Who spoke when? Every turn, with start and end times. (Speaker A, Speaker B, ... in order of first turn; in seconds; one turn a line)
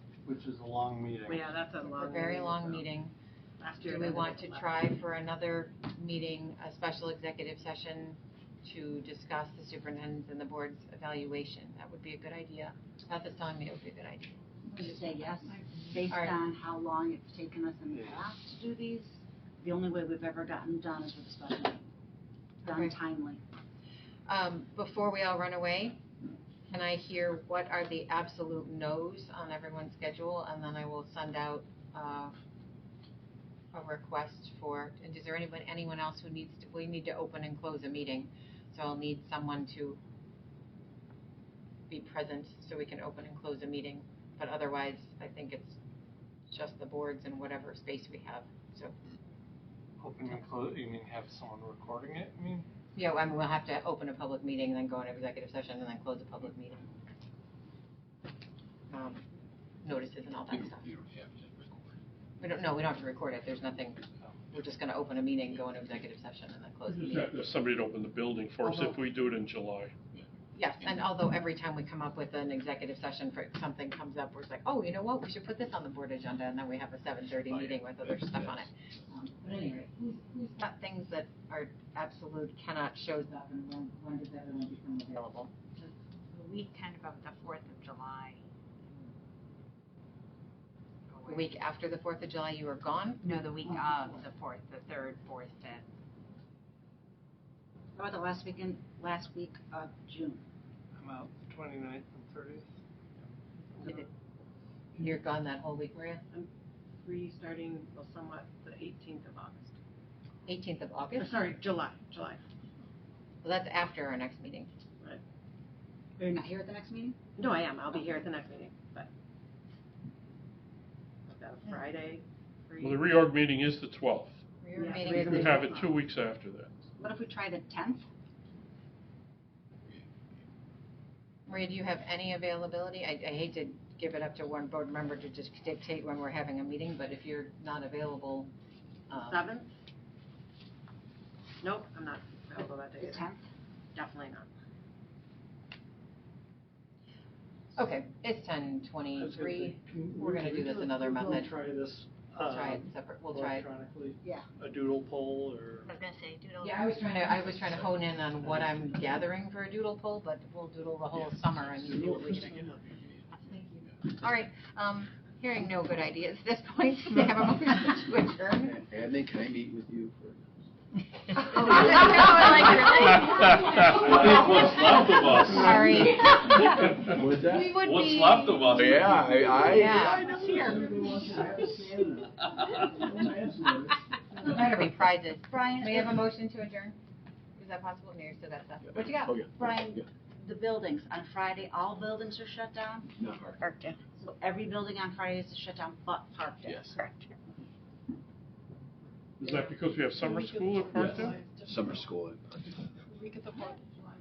Speaker A: 0.3-1.6
Speaker B: 1.3-2.9
Speaker C: 1.9-3.1
Speaker B: 3.6-4.7
Speaker C: 3.8-15.2
Speaker D: 14.7-21.8
Speaker E: 15.5-16.0
Speaker C: 16.1-16.4
Speaker A: 17.9-18.2
Speaker D: 22.6-23.4
Speaker C: 22.7-22.9
Speaker C: 24.3-26.0
Speaker C: 26.7-32.3
Speaker C: 33.7-40.0
Speaker C: 41.9-45.8
Speaker C: 46.5-49.0
Speaker A: 50.0-52.7
Speaker C: 53.0-56.9
Speaker C: 58.9-59.2
Speaker C: 59.8-60.8
Speaker F: 60.5-62.0
Speaker C: 62.4-67.4
Speaker G: 66.9-69.9
Speaker C: 70.5-85.5
Speaker F: 77.5-78.7
Speaker E: 86.4-88.4
Speaker C: 91.3-93.4
Speaker E: 93.3-95.8
Speaker D: 93.4-94.2
Speaker D: 98.0-100.4
Speaker A: 101.0-102.7
Speaker A: 103.7-104.1
Speaker C: 103.8-104.1
Speaker C: 105.0-106.2
Speaker B: 106.3-109.8
Speaker C: 110.5-111.4
Speaker B: 111.2-112.4
Speaker C: 113.4-114.7
Speaker D: 116.2-117.2
Speaker B: 117.4-119.1
Speaker B: 121.3-123.2
Speaker G: 122.8-124.4
Speaker C: 124.6-125.8
Speaker B: 124.8-125.8
Speaker G: 125.1-126.7
Speaker D: 127.0-128.1
Speaker C: 131.5-138.5
Speaker C: 139.1-139.4
Speaker B: 139.3-139.7
Speaker B: 141.6-143.2
Speaker D: 143.0-143.5
Speaker B: 143.9-144.5
Speaker C: 147.8-151.5
Speaker A: 149.2-155.9
Speaker C: 152.4-153.7
Speaker D: 154.2-154.5
Speaker E: 155.9-156.7
Speaker C: 156.6-162.8
Speaker F: 161.1-164.0
Speaker C: 163.3-168.8
Speaker F: 168.7-170.4
Speaker C: 171.3-179.0
Speaker B: 173.8-176.1
Speaker F: 177.1-177.8
Speaker F: 178.7-180.2
Speaker C: 179.6-180.3
Speaker B: 180.0-181.2
Speaker A: 180.3-181.9
Speaker D: 180.3-181.8
Speaker C: 184.4-187.0
Speaker D: 185.5-186.1
Speaker C: 187.6-189.3
Speaker F: 188.8-190.1
Speaker D: 188.9-193.1
Speaker F: 193.2-193.6
Speaker B: 193.6-194.0
Speaker D: 194.2-196.9
Speaker F: 196.6-197.0
Speaker B: 196.9-197.3
Speaker G: 199.4-201.4
Speaker B: 201.0-201.6
Speaker A: 201.0-201.3
Speaker F: 201.6-202.7
Speaker B: 203.2-203.8